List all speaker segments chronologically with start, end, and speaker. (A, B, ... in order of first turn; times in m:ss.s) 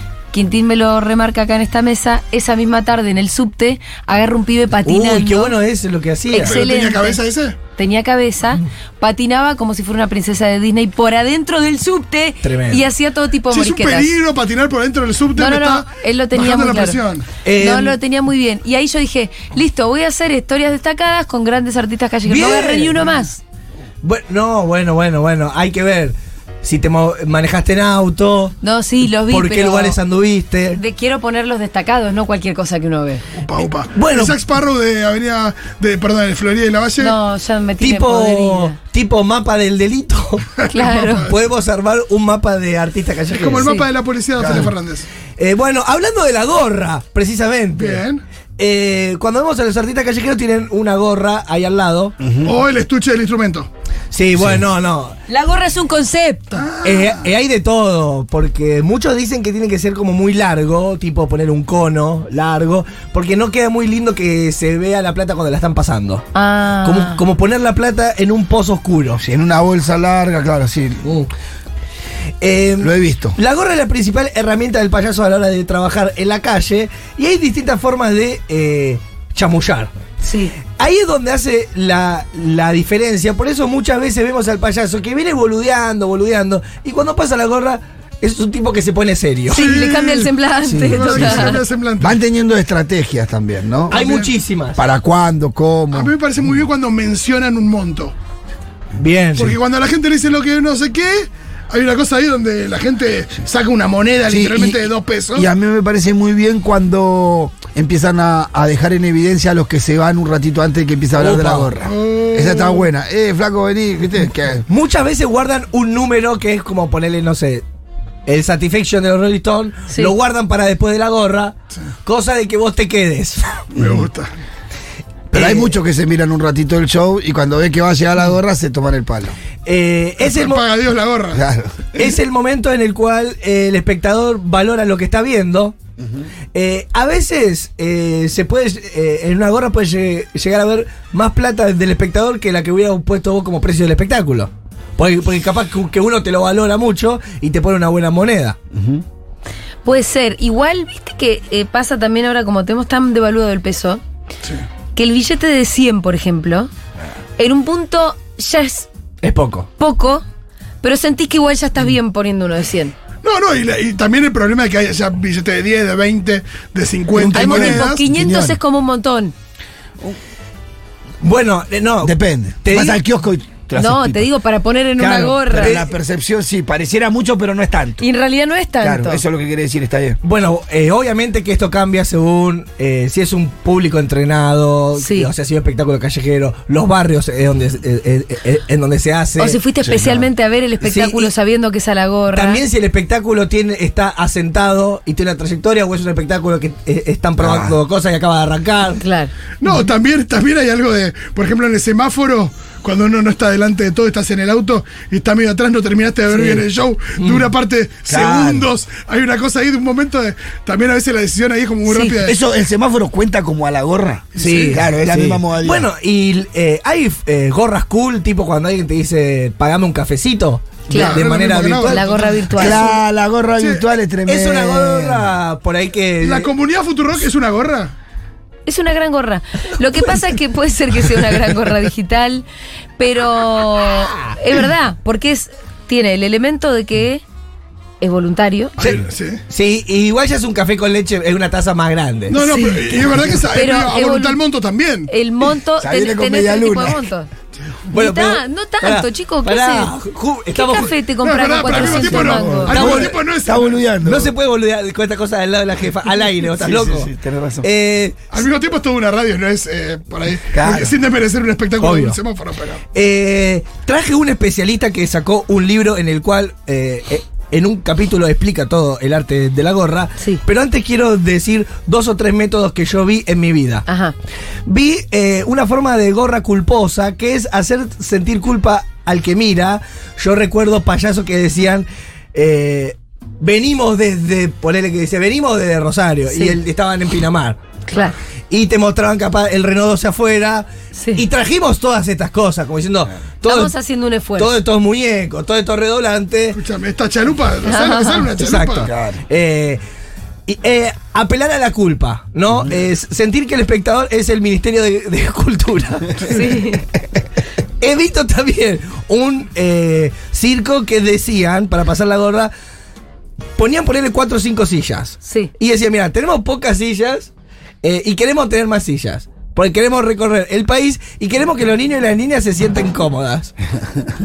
0:00.3-0:05.6 A
0:04.8-0:06.5 B
0:06.3-0:07.2 A
0:06.4-0:07.5 C
0:07.8-0:14.1 A
0:12.4-0:12.8 B
0:13.5-0:17.3 C
0:15.3-0:17.0 A
0:17.4-0:18.0 B
0:17.6-0:23.4 A
0:22.3-0:23.1 B
0:24.0-0:30.8 B
0:28.6-0:30.0 A
0:30.7-0:33.2 A
0:33.4-0:37.2 C
0:33.9-0:34.4 B
0:37.0-0:38.8 A
0:37.8-0:40.5 B
0:40.6-0:41.3 C
0:40.7-0:41.2 A
0:41.1-0:43.7 B
0:43.3-0:45.1 C
0:43.6-0:43.9 A
0:44.4-0:44.7 D
0:45.4-0:48.0 B
0:47.8-0:48.2 C
0:48.6-0:52.2 B
0:52.2-0:52.5 D
0:52.4-0:53.7 C
0:54.1-0:55.2 B
0:54.4-0:54.6 D
0:55.3-0:56.5 A
0:56.5-0:57.1 C
0:56.8-1:06.3 B
1:06.3-1:07.2 A
1:06.8-1:09.2 B
1:09.2-1:11.1 D
1:12.4-1:19.9 B
1:12.8-1:13.4 D
1:20.2-1:20.5 A
1:20.7-1:29.7 B
1:29.5-1:31.6 A
1:29.5-1:30.3 C
1:30.7-1:31.5 B
1:30.8-1:32.1 C
1:32.0-1:34.0 D
1:33.9-1:34.3 C
1:33.9-1:34.8 B
1:34.8-1:36.1 D
1:35.9-1:38.1 C
1:39.0-1:39.6 B
1:39.3-1:45.5 C
1:44.3-1:54.6 D
1:51.2-1:51.7 B
1:51.8-1:52.9 C
1:54.7-1:57.6 B
1:58.2-2:03.6 B
2:03.8-2:04.0 D
2:03.8-2:04.3 C
2:05.3-2:05.7 B
2:05.3-2:09.3 D
2:09.6-2:10.6 B
2:10.2-2:11.4 C
2:11.3-2:12.1 D
2:12.0-2:15.8 B
2:16.0-2:16.2 D
2:16.5-2:28.6 B
2:28.7-2:29.0 D
2:29.8-2:34.0 A
2:34.9-2:36.7 A
2:37.4-2:38.9 A
2:39.2-2:39.7 B
2:39.8-2:40.2 A
2:40.8-2:42.9 A
2:43.2-2:48.0 C
2:47.1-2:48.6 D
2:47.3-2:49.3 A
2:51.2-2:53.0 B
2:52.0-2:54.3 D
2:53.7-2:55.8 A
2:55.0-2:55.8 B
2:55.0-2:58.0 D
2:58.0-2:59.2 A
2:58.8-3:00.2 D
3:00.2-3:10.2 B
3:05.0-3:05.3 A
3:09.4-3:12.6 A
3:10.8-3:11.3 B
3:12.3-3:19.0 B
3:17.4-3:17.8 D
3:19.0-3:19.3 A
3:19.6-3:32.4 C
3:26.3-3:26.6 B
3:27.2-3:27.5 B
3:28.1-3:28.7 D
3:31.8-3:32.2 A
3:32.2-3:35.9 D
3:34.4-3:34.8 C
3:34.4-3:42.7 B
3:40.9-3:41.2 A
3:40.9-3:42.7 C
3:41.9-3:42.9 A
3:42.6-3:45.2 D
3:44.2-3:46.5 B
3:46.2-3:47.9 C
3:48.6-3:52.4 A
3:53.0-3:57.2 A
3:58.0-3:58.7 A
3:58.8-4:02.4 B
3:58.8-3:59.4 C
4:02.3-4:05.1 C
4:02.4-4:02.9 A
4:03.5-4:04.4 A
4:05.1-4:07.3 A
4:05.8-4:07.0 D
4:07.9-4:10.9 B
4:07.9-4:09.9 A
4:10.5-4:13.0 A
4:10.7-4:13.8 C
4:11.7-4:14.3 D
4:14.0-4:17.1 B
4:16.4-4:17.7 D
4:17.6-4:18.3 B
4:18.3-4:22.8 C
4:20.5-4:21.0 D
4:21.8-4:22.2 B
4:22.9-4:33.8 B
4:33.9-4:34.1 A
4:34.6-4:47.6 B
4:46.3-4:46.6 A
4:47.9-4:48.1 A
4:48.5-4:53.7 B
4:51.0-4:51.2 A
4:53.4-4:54.5 A
4:54.4-4:56.6 B
4:56.5-4:58.9 C
4:57.6-4:58.2 A
4:58.4-4:59.8 B
4:58.8-4:59.2 D
5:00.5-5:06.4 B
5:06.2-5:06.8 A
5:07.8-5:12.5 B
5:13.6-5:17.3 B
5:15.2-5:15.5 A
5:17.8-5:23.5 B